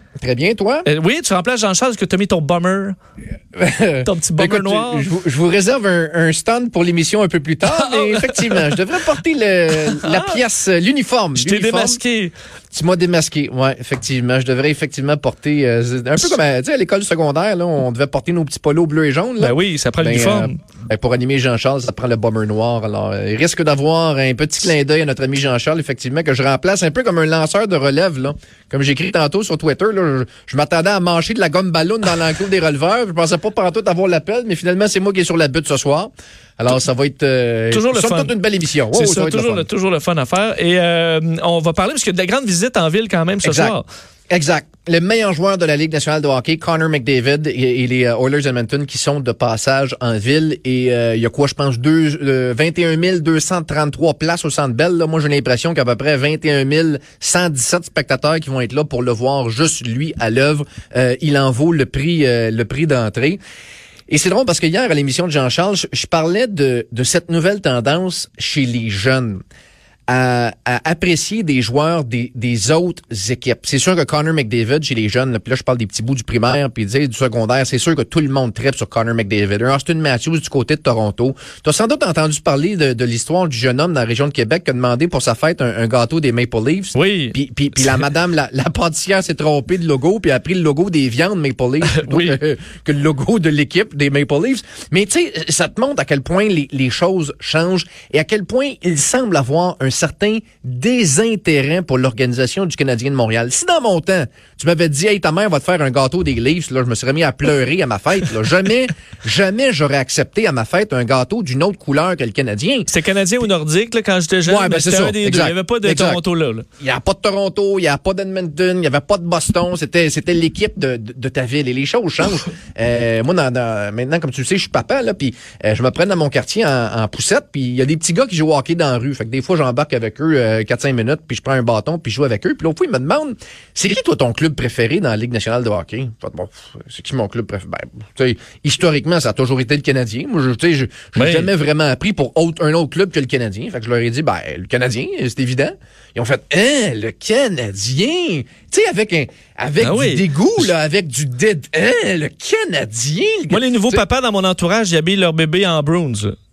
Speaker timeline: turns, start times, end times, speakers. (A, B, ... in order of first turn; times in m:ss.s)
0:00.2-0:00.9 A
0:00.8-0:03.0 B
0:03.5-0:12.0 A
0:04.0-0:05.0 B
0:07.7-0:08.7 B
0:09.8-0:10.4 B
0:11.4-0:12.3 B
0:12.7-0:39.7 A
0:19.4-0:20.6 B
0:37.7-0:38.3 B
0:38.9-0:43.8 B
0:43.4-0:43.8 A
0:44.3-1:03.4 A
1:04.1-1:09.4 A
1:10.1-1:52.9 A
1:27.0-1:27.4 B
1:31.9-1:32.4 B
1:52.9-1:56.6 B
1:54.5-1:56.2 A
1:56.8-2:34.0 A
2:21.2-2:21.5 B
2:29.8-2:30.2 B
2:33.5-2:36.4 B